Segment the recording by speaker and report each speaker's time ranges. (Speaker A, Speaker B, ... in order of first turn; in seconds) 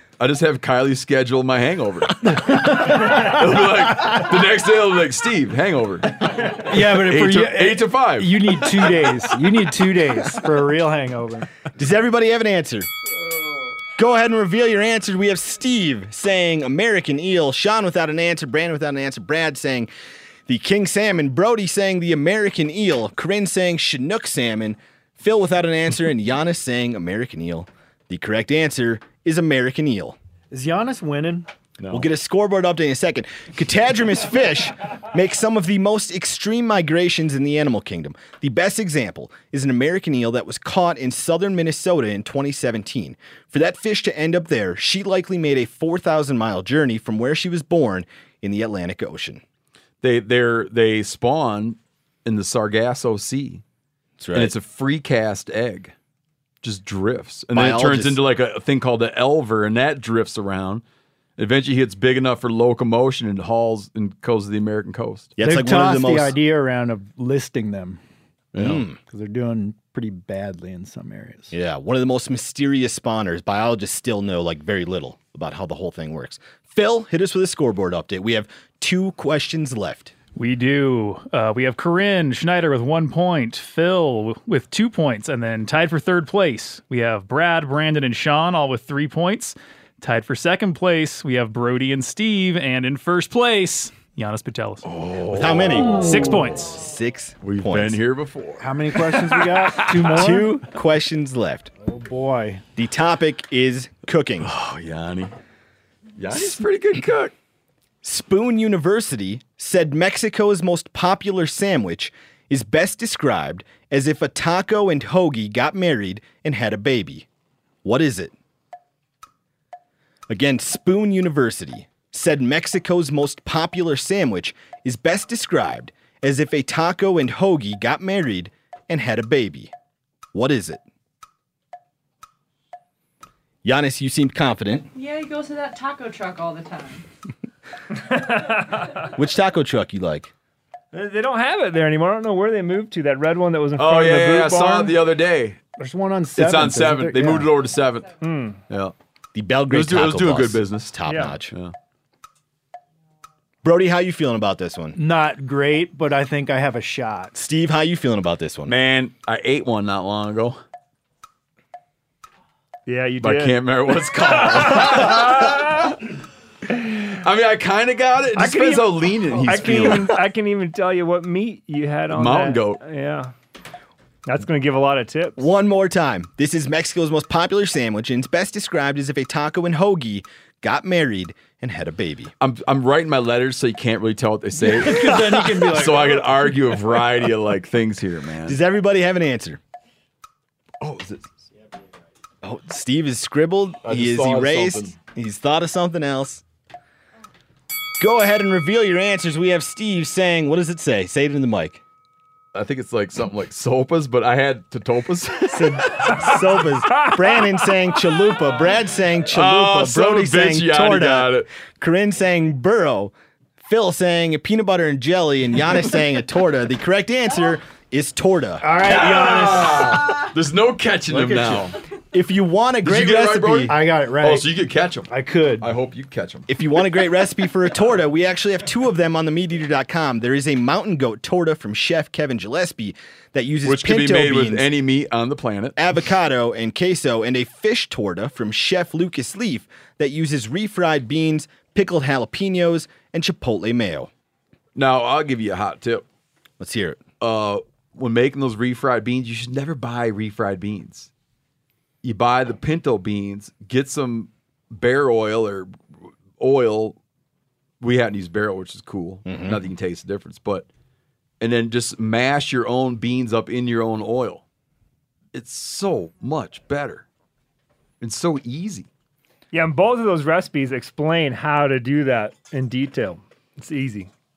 Speaker A: 0.2-8.9, 31.8-32.1, 50.0-53.6, 54.3-55.9, 56.6-60.8, 61.4-65.3, 68.5-68.8, 94.8-96.0, 97.4-98.7, 104.4-105.3, 106.2-107.3, 143.8-145.6, 146.4-148.2, 148.7-148.9, 149.7-151.7, 158.7-160.6, 163.2-166.0, 167.0-170.2, 172.1-172.8, 182.4-188.6, 190.8-191.3, 193.8-194.9, 202.5-206.3, 209.3-211.5, 218.8-221.8, 222.8-226.5, 233.7-235.8, 244.8-246.1, 247.2-251.1, 252.0-255.7, 256.4-257.0, 257.8-260.7, 261.4-264.4, 265.3-267.1, 268.0-268.9
Speaker B: 2.3-3.4, 6.4-11.5, 30.5-31.5, 65.4-68.0, 69.1-71.5, 98.6-100.6, 101.8-102.6, 145.8-147.5, 155.0-157.3, 184.6-186.5, 218.6-220.2, 223.7-224.6, 225.1-225.7
Speaker C: 11.8-12.9, 14.0-19.9, 20.5-30.2, 31.9-49.4, 54.2-54.5, 57.5-58.2, 65.4-66.4, 68.6-69.0, 71.5-80.1, 95.3-96.1, 96.7-98.0, 100.1-101.7, 102.8-104.5, 108.0-117.3, 117.8-118.3, 120.3-129.7, 130.3-130.8, 133.6-134.9, 139.2-140.3, 149.3-151.5, 153.6-155.0, 157.3-158.8, 175.4-182.3, 188.5-189.6, 192.4-196.4, 198.0-201.8, 205.5-218.8, 222.1-223.8, 226.5-234.7, 235.8-244.1, 246.6-247.0, 259.3-259.6
Speaker D: 80.3-94.8, 95.9-96.8
Speaker E: 134.9-137.1
Speaker F: 138.1-139.1, 140.9-145.0, 148.2-148.6, 151.1-151.3, 162.9-165.9, 168.3-173.3, 174.3-175.4, 269.5-274.1